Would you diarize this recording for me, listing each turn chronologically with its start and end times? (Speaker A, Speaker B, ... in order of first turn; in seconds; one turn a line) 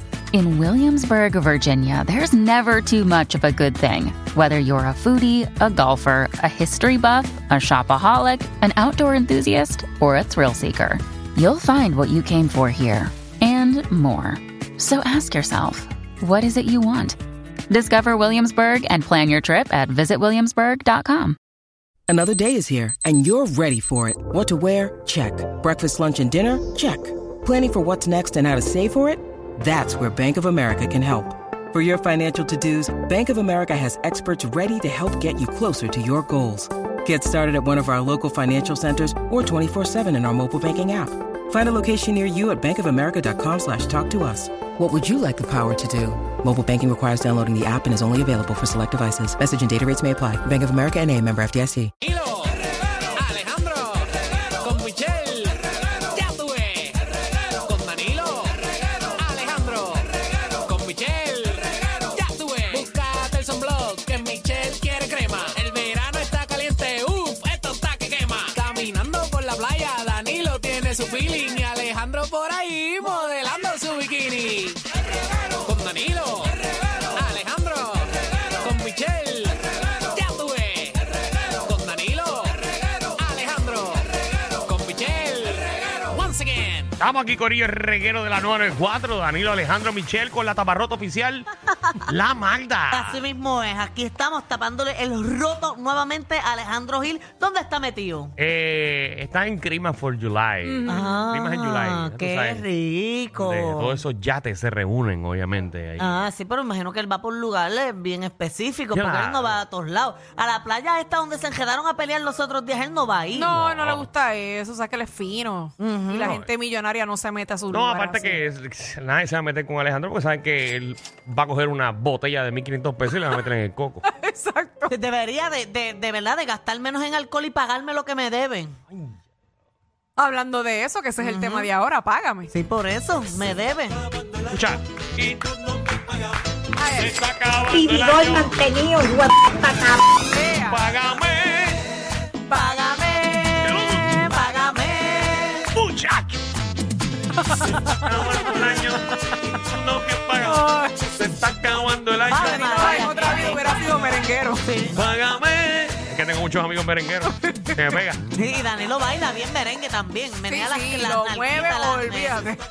Speaker A: 0.3-17.2
Speaker A: 17.7-21.4
Speaker B: 22.1-51.9
Speaker C: 52.0-52.5
Speaker C: 53.1-55.6
Speaker C: 56.1-57.0
Speaker C: 57.6-74.8
Speaker C: 75.6-76.6
Speaker C: 77.1-79.6
Speaker C: 80.1-81.0
Speaker C: 81.6-84.0
Speaker C: 84.6-86.9
Speaker D: 87.0-91.5
Speaker D: 92.1-93.2
Speaker E: 92.9-98.3
Speaker D: 98.4-102.7
Speaker F: 100.6-101.2
Speaker E: 100.9-104.0
Speaker D: 103.3-106.3
Speaker E: 106.0-113.5
Speaker D: 108.9-109.6
Speaker F: 113.3-118.4
Speaker D: 113.5-114.1
Speaker E: 115.8-116.3
Speaker D: 116.2-116.5
Speaker D: 117.7-124.0
Speaker F: 124.0-124.9
Speaker E: 124.9-128.8
Speaker D: 128.9-129.2
Speaker F: 130.2-132.5
Speaker E: 131.2-131.7
Speaker E: 132.5-134.0
Speaker D: 134.5-136.0
Speaker F: 136.8-137.2
Speaker D: 136.9-138.6
Speaker G: 137.6-140.1
Speaker F: 140.3-140.8
Speaker D: 140.5-141.9
Speaker E: 142.5-145.7
Speaker D: 143.6-144.2
Speaker D: 145.7-146.4
Speaker F: 147.6-147.9
Speaker D: 147.6-152.9
Speaker F: 150.4-151.1
Speaker E: 152.3-154.0
Speaker F: 152.3-154.6
Speaker E: 154.6-155.0
Speaker D: 154.9-158.2
Speaker F: 157.4-157.8
Speaker E: 158.3-162.4
Speaker F: 160.4-162.6